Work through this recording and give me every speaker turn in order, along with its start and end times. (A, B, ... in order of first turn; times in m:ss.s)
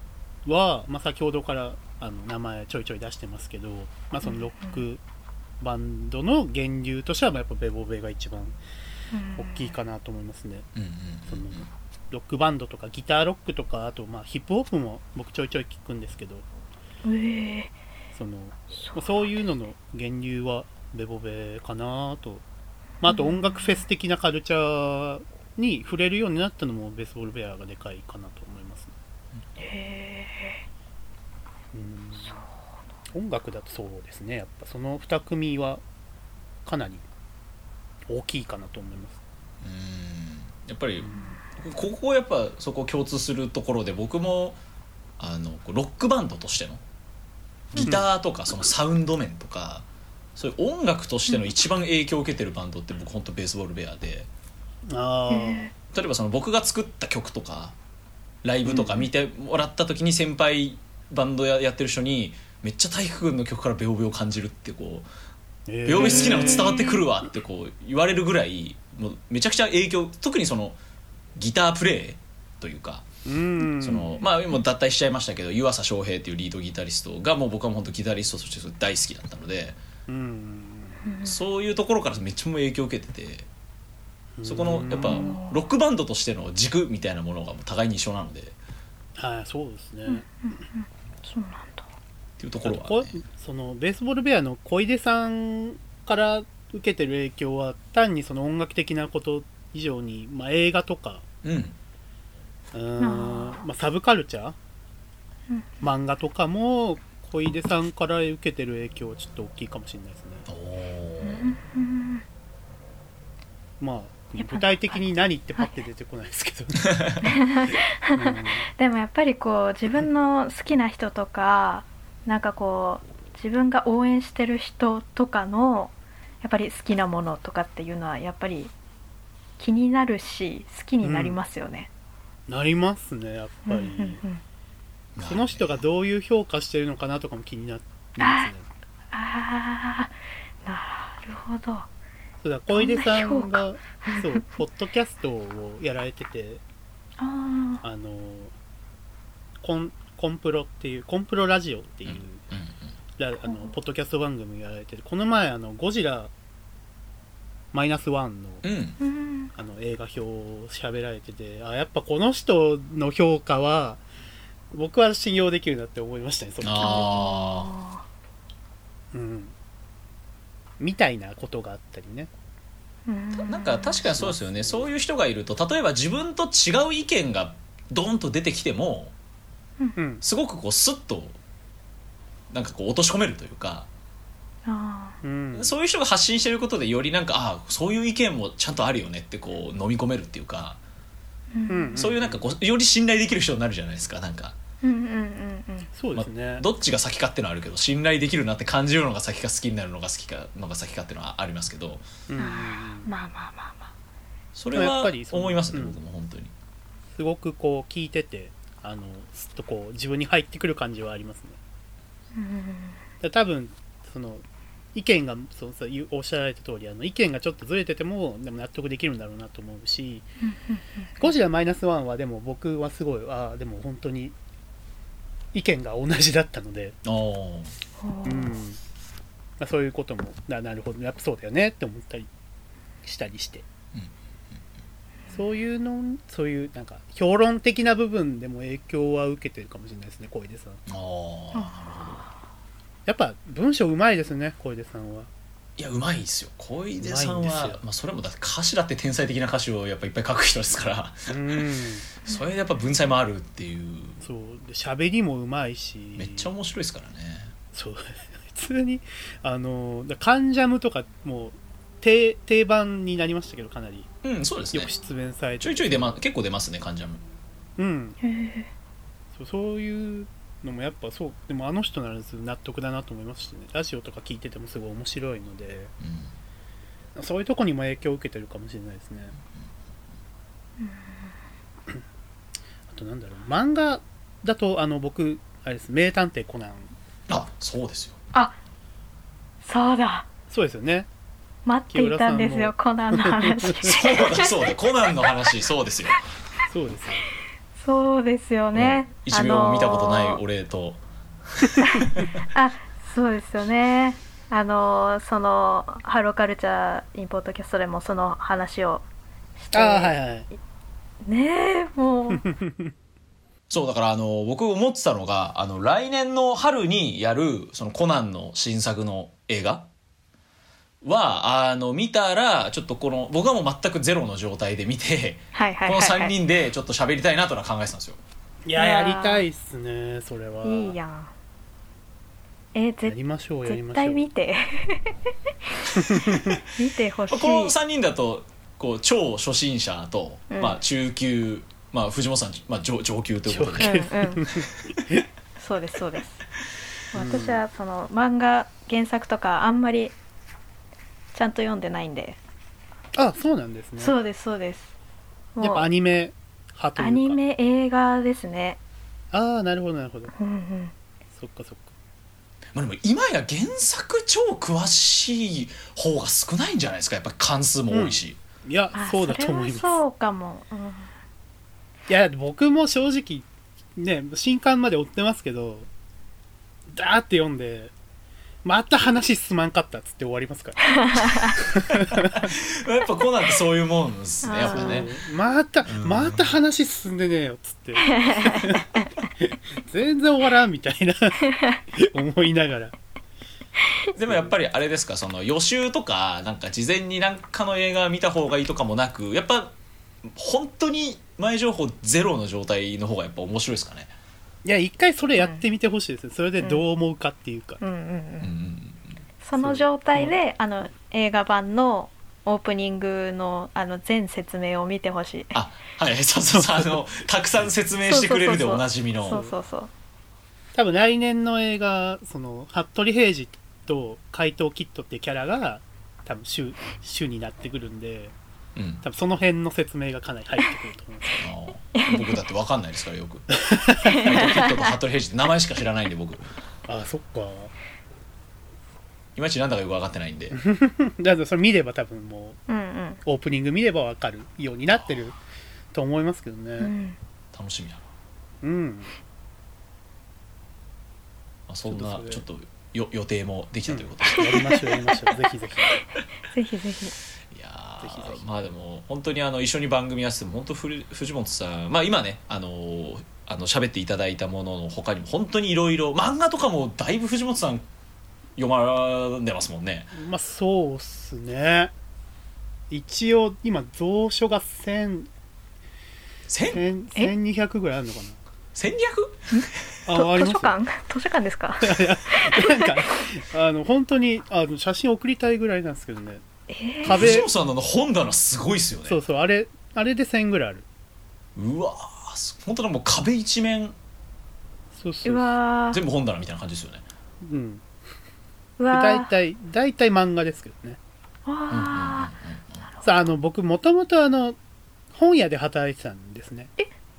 0:00.4-0:05.0 A
0:04.2-0:04.8 B
0:05.6-0:08.6 A
0:09.1-0:09.7 B
0:09.4-0:10.7 A
0:10.8-0:11.7 C
0:11.3-0:16.5 A
0:17.0-0:17.7 B
0:18.1-0:22.4 A
0:18.8-0:19.2 B
0:23.0-0:28.9 A
0:23.1-0:23.6 B
0:29.6-0:30.6 B
0:31.7-0:32.4 A
0:33.1-0:35.8 A
0:36.7-0:37.0 A
0:38.1-0:39.2 A
0:39.6-0:44.6 C
0:41.0-0:41.3 A
0:45.2-0:46.8 C
0:47.7-0:54.3 C
0:47.8-0:48.1 A
0:54.9-0:55.7 A
0:55.3-0:55.7 B
0:55.9-0:57.8 C
0:58.4-1:05.1 C
0:58.6-0:59.1 A
1:05.7-1:06.8 A
1:05.8-1:10.8 C
1:06.0-1:07.0 B
1:11.4-1:13.1 C
1:13.3-1:14.1 A
1:13.8-1:19.8 C
1:20.1-1:21.0 A
1:21.0-1:21.4 B
1:21.2-1:23.5 C
1:24.4-1:25.4 A
1:24.4-1:28.6 C
1:24.9-1:25.6 B
1:29.2-1:30.3 A
1:30.1-1:31.9 B
1:32.4-1:33.2 C
1:32.6-1:41.2 A
1:41.4-1:41.8 C
1:42.7-1:44.6 A
1:43.0-1:43.6 B
1:45.5-1:45.8 B
1:45.8-1:50.5 A
1:50.5-1:51.6 C
1:51.2-1:52.2 B
1:53.8-1:57.3 A
1:54.4-1:55.0 B
1:57.2-2:08.7 B
1:58.1-1:58.6 A
2:09.6-2:11.9 B
2:11.0-2:11.4 A
2:12.5-2:14.2 A
2:13.7-2:14.4 B
2:15.2-2:15.8 C
2:15.3-2:18.7 A
2:18.2-2:18.5 B
2:19.1-2:20.1 B
2:20.7-2:21.9 B
2:22.4-2:26.6 A
2:22.7-2:24.4 B
2:27.2-2:27.8 B
2:27.8-2:28.5 A
2:29.6-2:32.4 A
2:32.1-2:32.7 C
2:33.2-2:36.3 A
2:33.5-2:33.7 B
2:37.7-2:38.6 A
2:38.6-2:39.0 C
2:39.0-2:39.5 B
2:39.6-2:44.0 A
2:44.7-2:47.2 A
2:46.6-2:47.7 C
2:46.8-2:48.0 B
2:49.1-2:49.5 A
2:50.8-2:52.3 A
2:53.1-2:54.0 B
2:53.4-2:59.1 C
2:54.1-2:54.8 A
3:00.0-3:00.2 A
3:00.2-3:01.4 C
3:02.5-3:03.9 C
3:04.7-3:05.2 B
3:05.2-3:05.7 A
3:05.5-3:10.8 C
3:11.5-3:12.0 B
3:11.7-3:12.5 A
3:12.0-3:14.6 C
3:14.8-3:15.9 B
3:16.0-3:16.7 A
3:16.1-3:22.0 C
3:22.3-3:23.1 A
3:22.4-3:23.9 B
3:24.6-3:26.5 C
3:24.7-3:26.0 A
3:27.1-3:31.6 A
3:32.4-3:33.0 B
3:33.2-3:34.4 A
3:35.0-3:40.3 A
3:40.4-3:41.3 B
3:41.2-3:44.3 A
3:45.5-3:47.0 A
3:47.0-3:47.7 C
3:48.0-3:48.6 B
3:48.2-3:48.8 A
3:49.6-3:52.3 A
3:53.0-3:53.6 A
3:55.3-4:00.8 A
4:00.9-4:02.3 C
4:03.1-4:05.3 A
4:05.8-4:11.7 C
4:07.0-4:07.8 A
4:11.3-4:12.1 A
4:12.3-4:14.2 C
4:14.2-4:16.5 A
4:16.2-4:17.5 C
4:17.7-4:24.1 A
4:24.2-4:24.9 C
4:24.7-4:26.2 A
4:25.6-4:27.2 C
4:27.8-4:28.2 A
4:28.2-4:28.7 B
4:29.4-4:35.9 A
4:36.0-4:36.3 C
4:37.2-4:39.4 A
4:40.8-4:41.3 B
4:42.9-4:46.9 A
4:47.3-4:48.2 C
4:49.6-4:50.3 B
4:50.5-4:51.1 A
4:51.7-4:54.7 B
4:51.9-4:54.0 A
4:53.9-4:56.2 C
4:56.7-4:57.3 A
4:57.8-5:00.4 B
4:58.8-5:01.0 C
5:01.6-5:02.4 C
5:01.8-5:09.0 B
5:09.6-5:10.2 B
5:09.7-5:10.5 A
5:11.2-5:12.5 B
5:12.4-5:12.9 A
5:13.7-5:19.9 C
5:21.0-5:28.2 C
5:25.5-5:26.4 B
5:28.6-5:31.0 A
5:28.8-5:29.4 B
5:30.6-5:31.3 B
5:32.7-5:35.2 B
5:33.1-5:34.3 A
5:35.7-5:37.8 B
5:36.0-5:36.6 A
5:36.2-5:36.6 C
5:37.3-5:44.0 C
5:40.5-5:40.8 B
5:43.5-5:44.7 A
5:43.8-5:44.5 B
5:45.6-5:46.4 B
5:47.1-5:50.2 B
5:47.1-5:47.6 A
5:51.3-5:52.4 B
5:53.2-5:54.2 A
5:54.0-5:54.9 B
5:55.6-5:55.9 B
5:55.6-5:57.4 A
5:57.0-5:58.8 B
5:59.3-6:00.3 A
6:00.4-6:00.9 B
6:01.4-6:01.9 A
6:02.7-6:08.4 C
6:07.9-6:10.0 A
6:09.0-6:11.1 B
6:12.1-6:15.9 A
6:16.9-6:17.9 A
6:18.6-6:22.5 A
6:20.9-6:21.6 B
6:22.2-6:25.1 C
6:24.4-6:25.1 B
6:24.7-6:28.9 A
6:25.9-6:26.5 C
6:28.1-6:29.1 B
6:29.4-6:32.9 A
6:31.5-6:31.8 B
6:34.2-6:44.1 C
6:44.6-6:47.8 A
6:45.4-6:45.6 B
6:47.8-6:48.5 B
6:48.4-6:49.2 C
6:49.4-6:55.6 B
6:49.6-6:50.4 A
6:55.5-6:59.4 C
6:56.5-6:57.0 A
6:58.1-6:59.9 B
7:00.8-7:08.3 A
7:08.8-7:09.0 C
7:09.0-7:11.4 A
7:11.4-7:16.4 C
7:12.0-7:12.4 B
7:13.6-7:14.2 A
7:14.0-7:14.9 B
7:16.9-7:17.7 A
7:19.4-7:20.6 C
7:20.5-7:22.6 A
7:22.7-7:23.2 B
7:23.2-7:25.4 A
7:25.9-7:26.9 A
7:26.8-7:27.2 B
7:27.5-7:28.0 C
7:28.6-7:29.1 A
7:31.7-7:34.7 C
7:31.9-7:32.4 A
7:33.9-7:36.0 A
7:34.6-7:35.3 B
7:36.0-7:37.2 B
7:37.5-7:47.8 C
7:38.0-7:38.6 A
7:48.6-7:50.1 C
7:50.1-7:51.9 A
7:52.9-7:55.3 A
7:56.5-7:56.8 C
7:56.7-7:58.4 A
7:58.8-7:59.5 C
7:59.5-8:03.0 B
8:00.1-8:00.8 A
8:01.8-8:06.4 A
8:06.7-8:07.4 B
8:07.0-8:07.5 A
8:07.1-8:09.2 C
8:09.1-8:10.8 A
8:11.6-8:14.0 C
8:14.9-8:15.6 A
8:15.2-8:16.0 B
8:15.9-8:17.0 C
8:17.4-8:17.8 A
8:18.8-8:19.3 B
8:18.9-8:21.0 A
8:21.5-8:22.3 B
8:21.7-8:22.8 C
8:22.9-8:23.3 B
8:23.0-8:24.6 A
8:25.1-8:26.7 A